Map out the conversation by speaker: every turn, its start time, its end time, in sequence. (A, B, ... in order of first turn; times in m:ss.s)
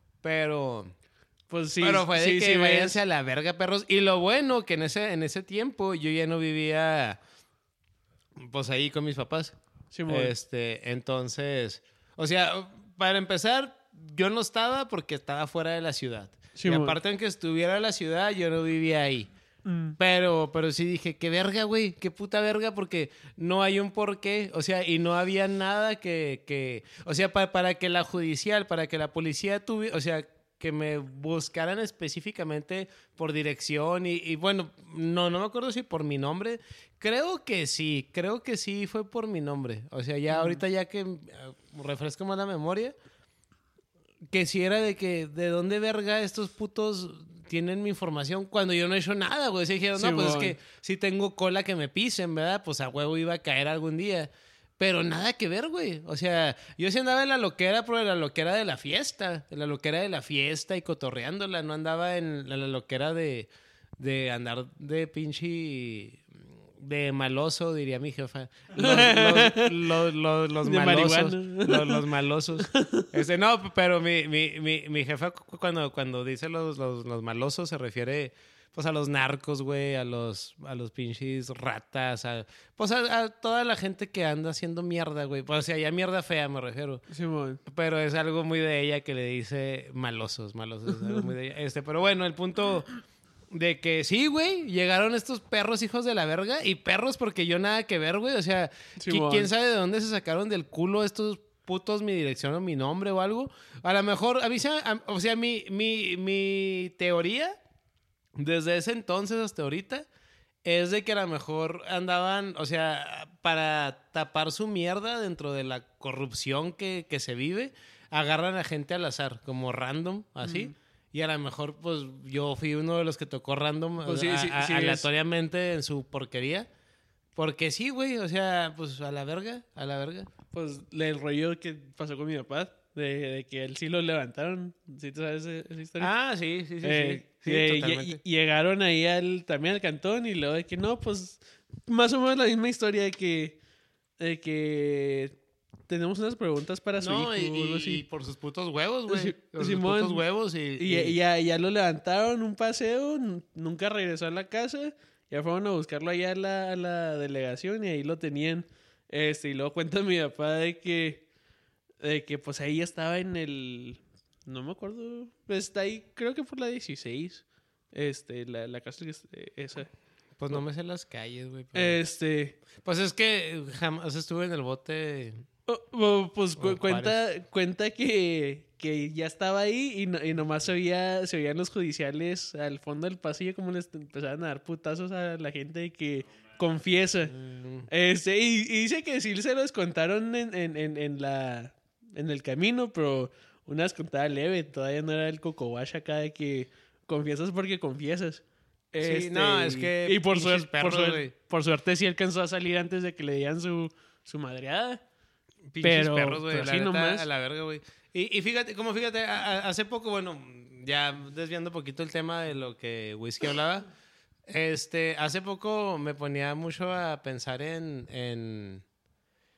0:00.2-0:00.9 A
0:01.5-0:03.0 B
0:01.8-0:07.2 A
0:08.4-0:09.6 A
0:09.9-0:10.3 B
0:10.1-0:19.3 A
0:16.6-0:17.0 B
0:19.7-0:20.0 B
0:20.0-0:43.0 A
0:40.3-0:40.6 B
0:44.3-1:27.0 A
0:50.0-0:50.6 B
1:08.8-1:09.8 B
1:10.6-1:12.0 B
1:12.6-1:13.1 B
1:27.1-1:27.6 B
1:27.7-1:32.9 A
1:33.5-1:47.6 A
1:39.0-1:39.5 B
1:48.4-1:50.1 A
1:50.6-2:06.7 A
2:00.4-2:00.7 B
2:04.0-2:05.1 B
2:07.4-2:10.3 A
2:10.5-2:16.1 B
2:16.0-2:18.2 A
2:16.8-2:23.6 B
2:24.2-2:25.4 B
2:25.9-2:28.0 B
2:27.0-2:31.2 A
2:29.1-2:30.2 B
2:30.8-2:41.2 B
2:42.0-2:49.9 B
2:50.4-2:52.0 A
2:51.7-2:52.6 B
2:52.8-2:55.4 A
2:55.7-3:07.3 B
2:56.6-2:57.2 A
3:07.3-3:07.9 A
3:07.9-3:25.0 B
3:19.0-3:21.3 A
3:25.7-3:33.9 A
3:25.8-3:27.2 B
3:34.5-3:38.8 A